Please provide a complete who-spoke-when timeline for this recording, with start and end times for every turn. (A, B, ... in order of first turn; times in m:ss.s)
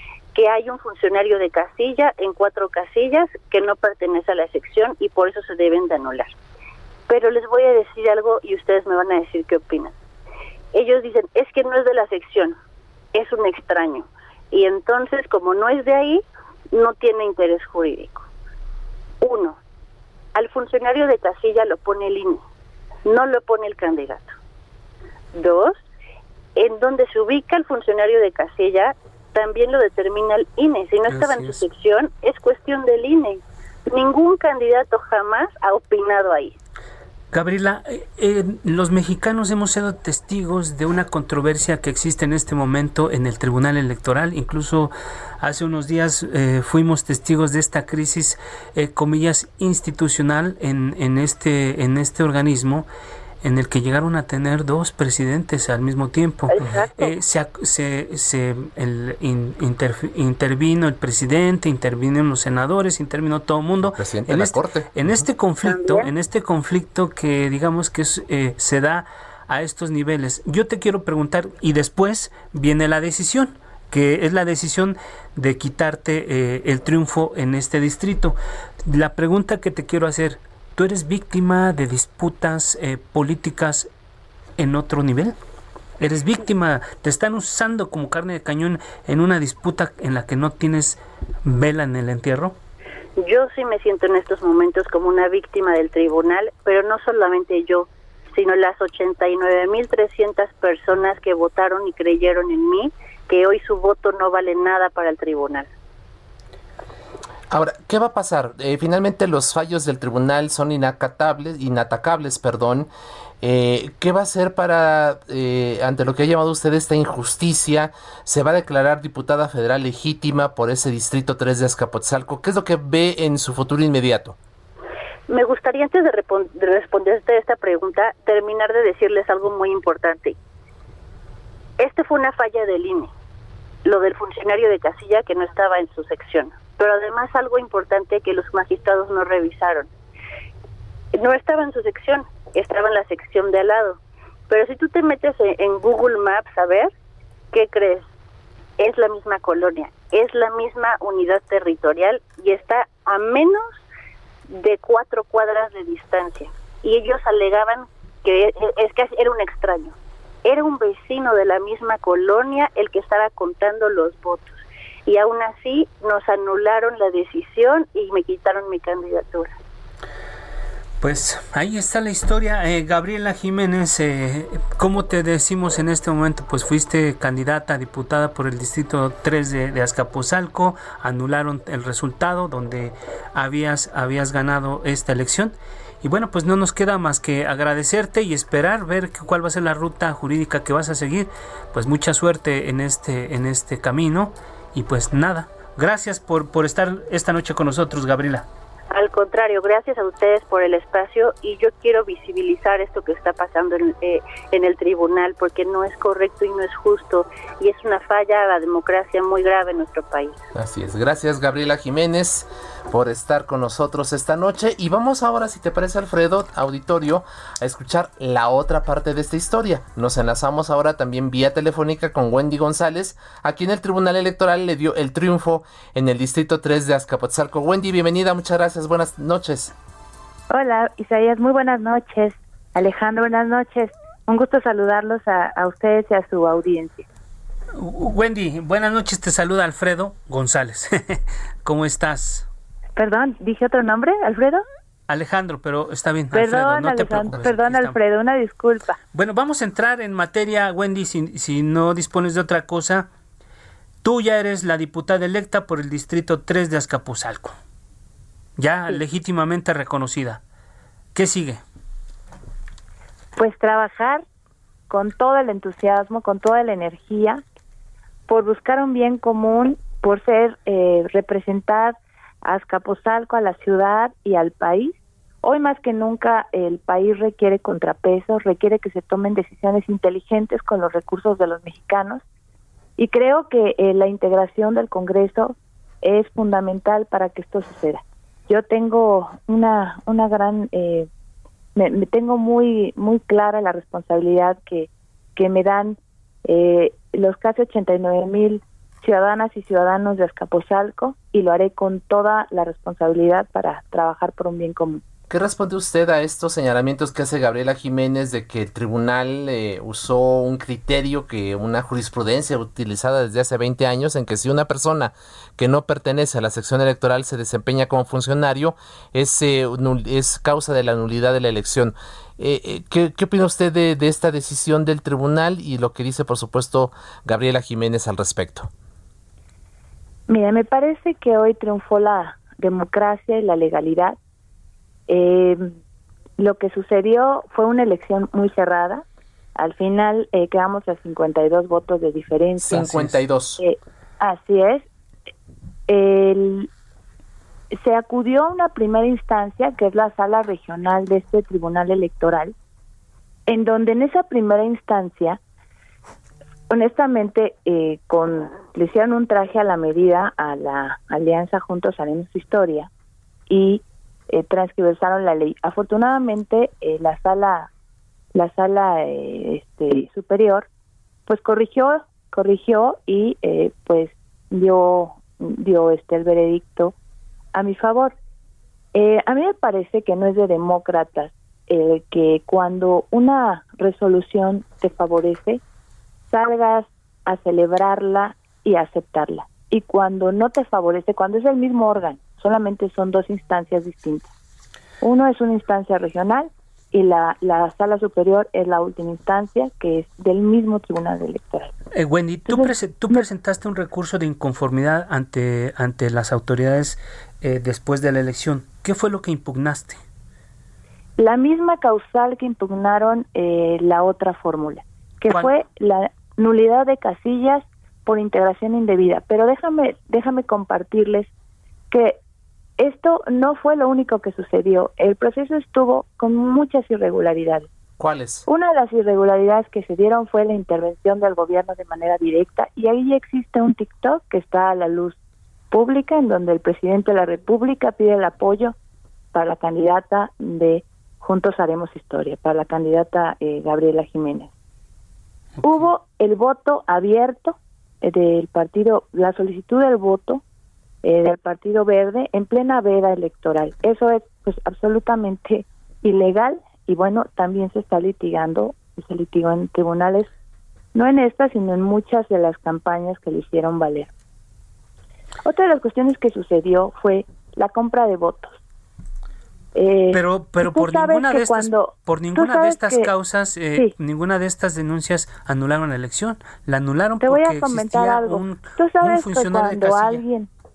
0:00.3-0:06.3 A
0:07.1-0:09.9 A
0:10.7-0:12.5 A
0:13.1-0:18.2 A
0:19.2-0:19.6 A
0:20.3-0:22.4 A
0:23.0-0:24.3 A
0:25.3-0:25.8 A
0:26.6-0:36.6 A
0:31.1-0:31.6 B
0:37.3-0:52.9 B
0:53.4-1:23.9 B
0:56.5-0:57.2 A
1:04.0-1:05.1 C
1:05.6-1:06.1 A
1:24.6-1:25.3 B
1:26.0-1:32.6 B
1:33.2-1:45.7 A
1:47.5-1:52.9 C
1:53.4-2:04.4 C
2:05.3-2:10.3 A
2:11.8-2:13.1 A
2:13.8-2:19.9 A
2:21.1-2:26.9 A
2:27.5-2:28.1 A
2:28.8-2:33.8 A
2:34.5-2:49.5 A
2:51.0-3:18.4 B
3:18.9-3:30.4 A
3:30.5-3:49.7 C
3:50.5-3:57.0 D
3:57.8-4:02.5 B
4:03.0-4:04.6 D
4:05.1-4:08.0 B
4:06.3-4:09.0 D
4:09.1-4:13.1 B
4:14.0-4:17.6 B
4:18.6-4:20.4 B
4:21.1-4:21.6 B
4:23.4-4:24.2 D
4:24.9-4:27.4 D
4:28.3-4:42.2 D
4:43.0-4:51.1 D
4:51.7-5:05.0 D
5:05.3-5:28.7 C
5:30.3-5:34.2 D
5:35.1-5:35.7 D
5:36.4-5:39.0 D
5:39.6-5:44.9 D
5:42.6-5:43.6 C
5:45.9-5:46.7 D
5:47.7-5:52.5 D
5:53.5-5:55.4 D
5:56.7-6:02.9 D
6:03.5-6:07.7 D
6:08.3-6:10.7 D
6:11.3-6:16.9 D
6:17.5-6:18.2 D
6:18.9-6:25.6 D
6:26.3-6:34.3 D
6:35.0-6:41.7 D
6:41.9-6:50.0 B
6:42.5-6:43.2 D
6:51.2-7:01.3 D
7:01.9-7:02.2 D
7:02.8-7:07.7 D
7:08.0-7:08.4 C
7:08.5-7:15.2 D
7:15.7-7:18.7 D
7:19.3-7:24.5 D
7:25.6-7:25.9 B
7:25.6-7:30.4 D
7:31.0-7:40.3 D
7:40.9-7:44.1 D
7:45.4-7:48.6 D
7:49.7-7:53.1 D
7:50.1-8:00.2 B
7:57.2-8:00.5 D